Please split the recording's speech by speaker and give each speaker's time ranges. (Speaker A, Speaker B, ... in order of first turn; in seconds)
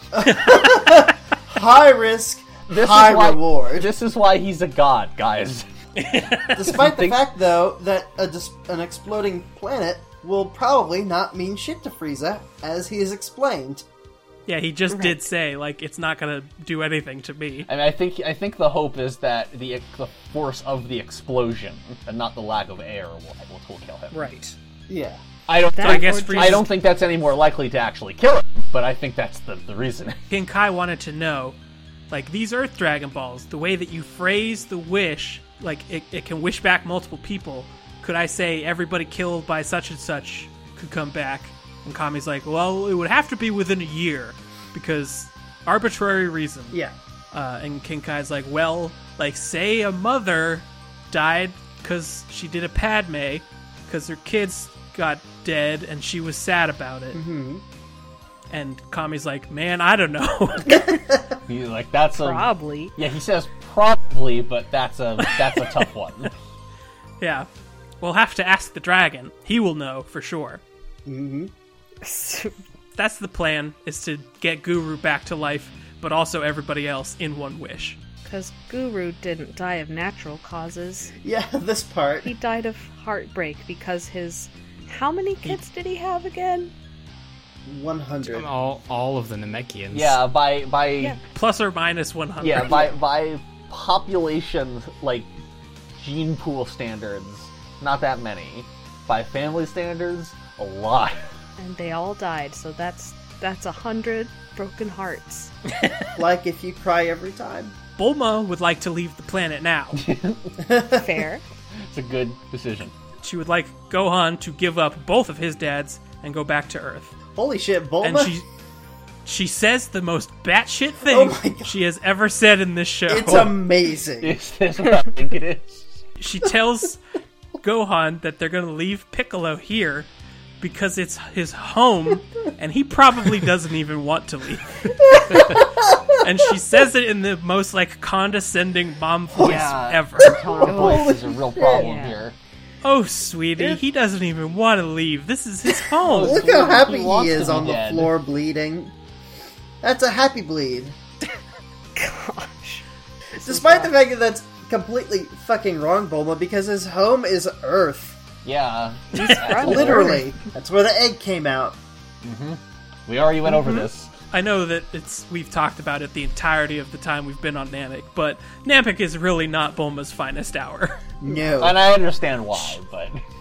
Speaker A: 0.1-3.9, 6.5-13.8, 24.9-25.2, 57.1-57.6, 60.7-61.4, 71.0-71.5, 81.2-82.3, 87.7-88.5, 106.2-107.7, 110.6-111.2, 117.3-118.3, 121.1-121.8, 123.1-124.4, 135.0-136.2, 140.2-141.9, 146.1-148.9, 149.8-150.9, 153.4-158.2, 159.6-161.8, 171.2-171.8
Speaker B: 2.7-5.7, 6.7-7.2, 17.7-24.2, 25.5-30.2, 61.5-66.3, 89.9-91.2, 92.4-95.3, 96.0-101.2, 110.0-110.5, 111.9-112.9, 123.3-123.5, 124.2-126.0, 139.3-142.4, 146.0-148.1, 158.4-160.2, 162.2-164.1, 171.6-173.2
Speaker C: 6.0-6.7, 14.5-17.7, 24.1-24.4, 25.8-26.7, 30.3-31.6, 32.1-46.8, 47.3-57.2, 58.5-60.9, 67.2-67.5, 68.0-70.6, 72.9-78.0, 91.3-92.9, 108.0-110.0, 113.2-117.2, 118.0-118.5, 119.2-123.5, 126.2-127.0, 127.6-130.1, 130.6-134.8, 136.2-140.4, 142.8-146.4, 164.3-171.0
Speaker D: 14.9-15.3, 25.7-26.7, 62.1-62.9, 72.0-72.5, 78.2-81.1, 82.2-86.7, 101.6-105.5, 110.9-111.4, 140.6-142.2, 151.9-152.8, 153.4-153.9, 159.1-160.2, 163.5-163.9
Speaker E: 88.2-90.2